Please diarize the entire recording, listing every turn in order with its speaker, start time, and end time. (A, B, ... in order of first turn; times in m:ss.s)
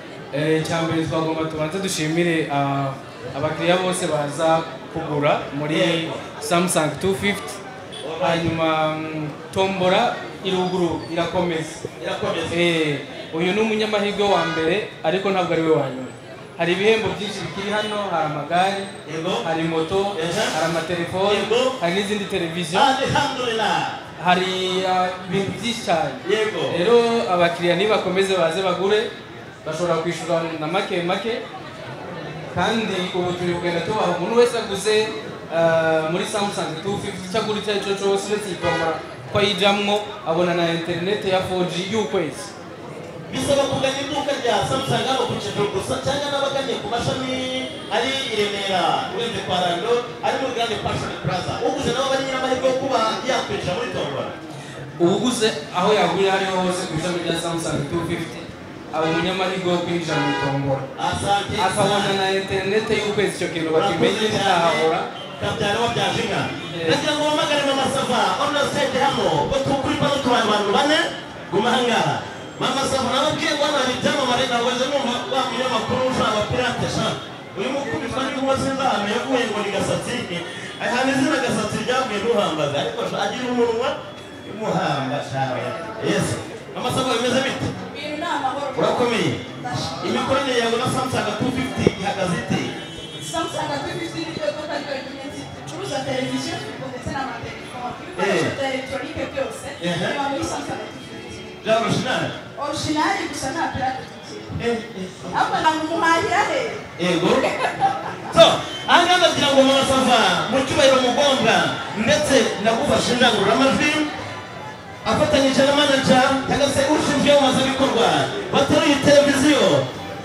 0:00.3-0:07.6 A
0:05.7-0:06.2 B
0:08.0-0:08.5 B
0:08.2-0:11.8 A
0:12.0-0:12.5 B
0:12.5-0:18.9 A
0:19.0-0:19.4 B
0:19.4-0:22.9 A
0:20.1-0:20.5 B
0:21.2-0:21.8 B
0:22.7-0:24.0 B
0:24.2-0:29.1 A
0:26.2-0:26.8 B
0:29.6-0:31.4 A
0:32.5-0:42.5 A
0:43.3-0:54.4 B
0:55.0-1:00.9 A
1:01.0-1:02.1 B
1:01.6-1:05.1 A
1:03.7-1:04.9 B
1:05.4-1:27.7 B
1:06.7-1:07.0 A
1:27.9-1:30.3 C
1:28.8-1:29.4 B
1:30.0-1:32.8 B
1:33.2-1:41.5 C
1:38.2-1:38.5 B
1:39.8-1:40.2 B
1:41.6-1:42.3 B
1:42.5-1:44.6 C
1:44.6-1:45.4 B
1:45.3-1:48.1 C
1:47.0-1:47.4 B
1:48.3-1:54.1 B
1:55.0-1:59.9 B